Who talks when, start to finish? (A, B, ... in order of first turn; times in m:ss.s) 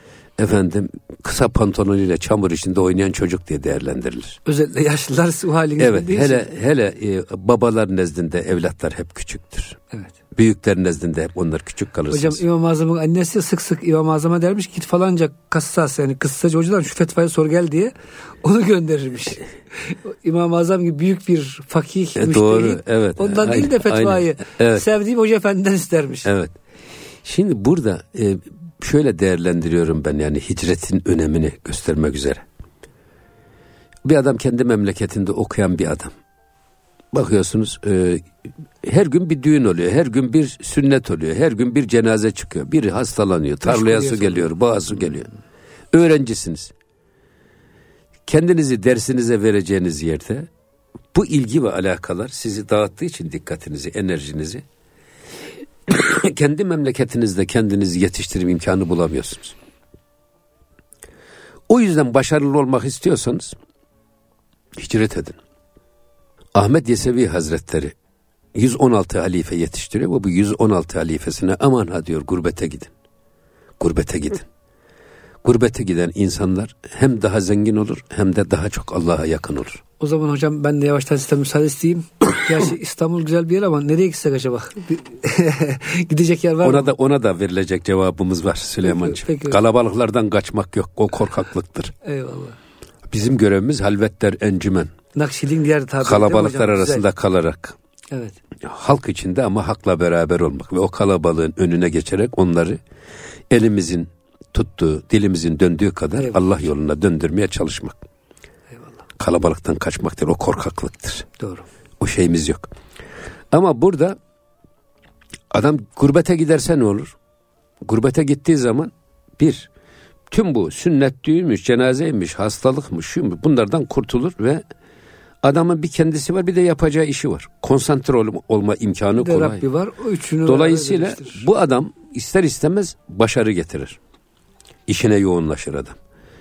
0:00.4-0:04.4 A
0:04.4-0:06.5 B
0:05.8-0:09.8 A
0:10.3-0:12.4 A
0:12.1-0:26.3 B
0:22.2-0:24.8 A
0:26.2-0:26.6 A
0:27.2-0:32.4 A
0:34.0-0:36.1 A
0:37.1-0:38.3 A
0:38.8-0:45.3 A
0:43.6-0:44.5 B
0:45.9-0:46.7 A
0:48.3-0:50.5 A
0:51.1-0:54.6 A
0:55.9-0:59.6 A
1:01.7-1:03.6 A
1:04.8-1:05.4 A
1:06.5-1:07.9 A
1:08.5-1:12.9 A
1:13.8-1:14.4 A
1:15.4-1:19.8 A
1:20.0-1:26.9 B
1:26.6-1:31.9 A
1:28.8-1:29.6 B
1:32.0-1:32.6 B
1:33.1-1:34.9 A
1:35.1-1:37.0 B
1:36.0-1:37.8 A
1:38.1-1:38.4 B
1:38.6-1:42.8 A
1:43.5-1:48.0 A
1:46.2-1:46.4 B
1:49.2-1:51.3 A
1:51.4-1:51.6 B
1:52.0-1:52.7 A
1:53.5-1:54.2 A
1:55.5-1:57.1 A
1:57.8-1:59.7 A
2:00.3-2:04.6 A
2:05.4-2:09.6 A
2:09.2-2:11.4 B
2:10.4-2:14.0 A
2:14.9-2:16.0 A